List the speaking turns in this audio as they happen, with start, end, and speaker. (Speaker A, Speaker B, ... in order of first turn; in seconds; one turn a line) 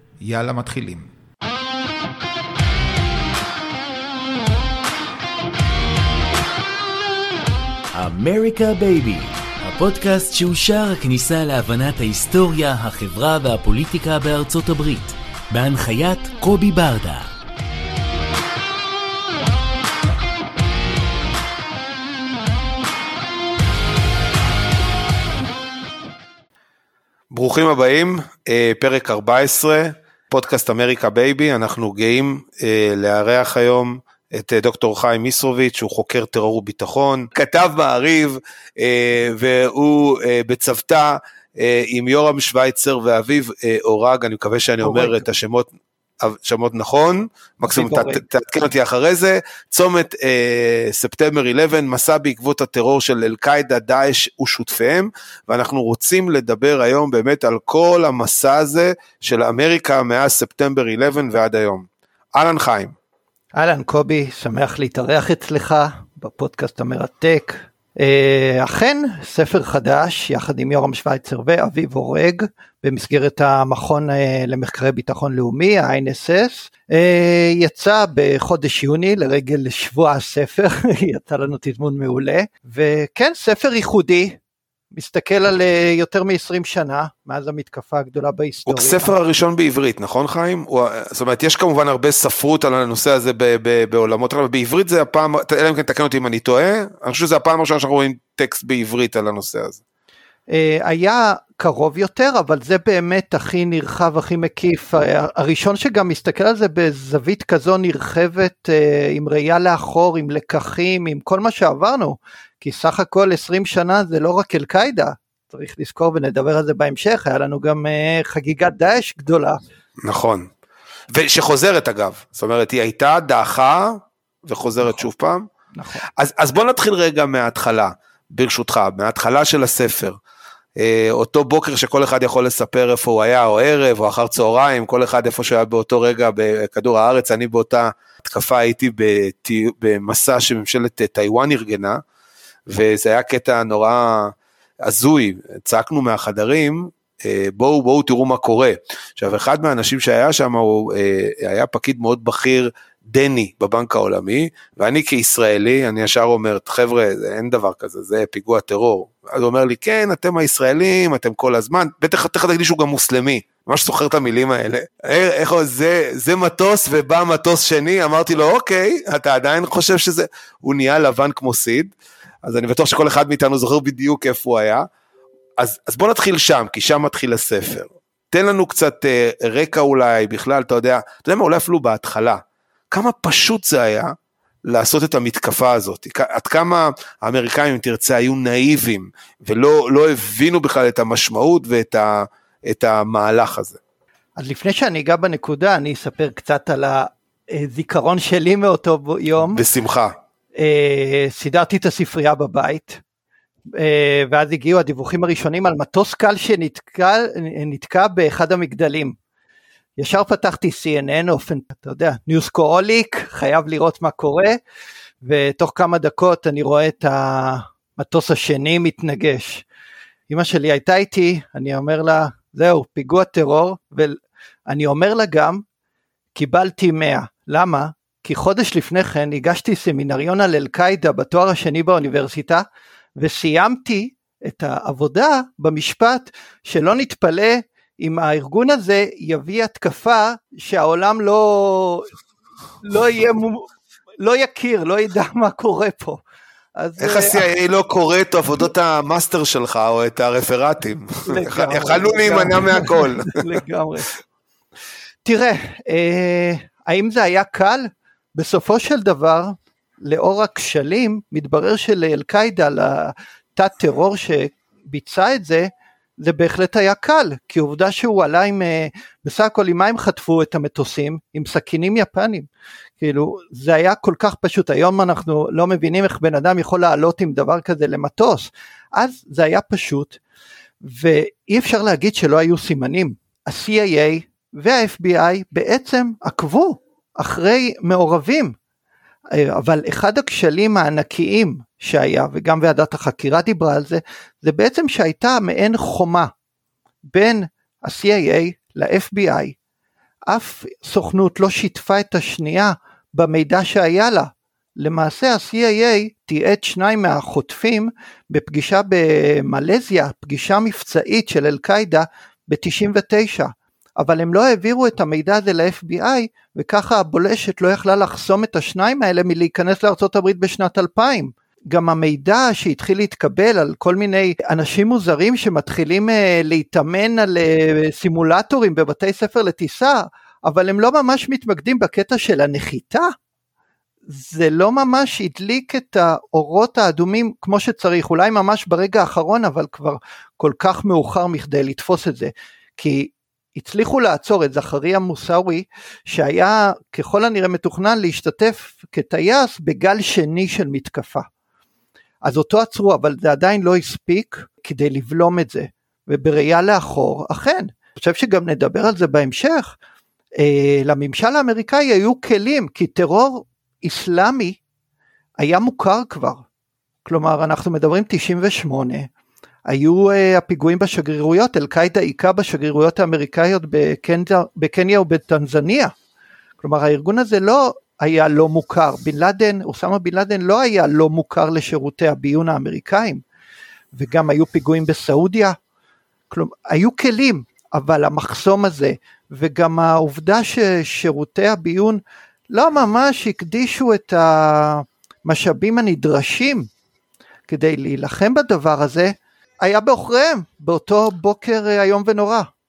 Speaker A: 0.2-1.1
Speaker B: 7.9-17.3
Speaker A: 27.3-45.7
Speaker C: 44.8-45.2
Speaker A: 46.2-63.0
Speaker C: 47.7-48.2
Speaker C: 63.5-84.4
Speaker C: 84.9-89.1
Speaker A: 88.7-99.8
Speaker C: 100.5-119.6
Speaker A: 120.0-120.5
Speaker A: 121.1-125.5
Speaker C: 125.7-126.0
Speaker A: 126.2-130.2
Speaker A: 130.8-142.0
Speaker A: 142.7-171.9
Speaker A: 172.4-174.9
Speaker A: 175.6-182.4
Speaker A: 182.9-184.2
Speaker A: 184.7-193.8
Speaker C: 194.4-199.6
Speaker A: 199.5-200.1
Speaker C: 200.6-203.0
Speaker C: 203.7-209.2
Speaker C: 210.0-214.6
Speaker C: 215.2-219.7
Speaker C: 220.3-225.6
Speaker C: 226.3-232.7
Speaker C: 233.2-242.1
Speaker C: 242.8-243.7
Speaker C: 244.2-246.2
Speaker C: 246.8-247.5
Speaker A: 247.0-253.6
Speaker C: 251.3-254.1
Speaker C: 255.2-272.5
Speaker C: 273.0-280.2
Speaker C: 280.8-288.6
Speaker C: 289.3-296.3
Speaker C: 297.1-299.6
Speaker C: 300.3-333.1
Speaker C: 334.1-351.3
Speaker C: 352.2-359.7
Speaker C: 360.4-364.6
Speaker C: 365.4-366.4
Speaker C: 367.1-369.1
Speaker C: 369.7-375.9
Speaker C: 376.6-383.2
Speaker C: 383.9-385.6
Speaker C: 386.3-396.7
Speaker C: 397.5-402.5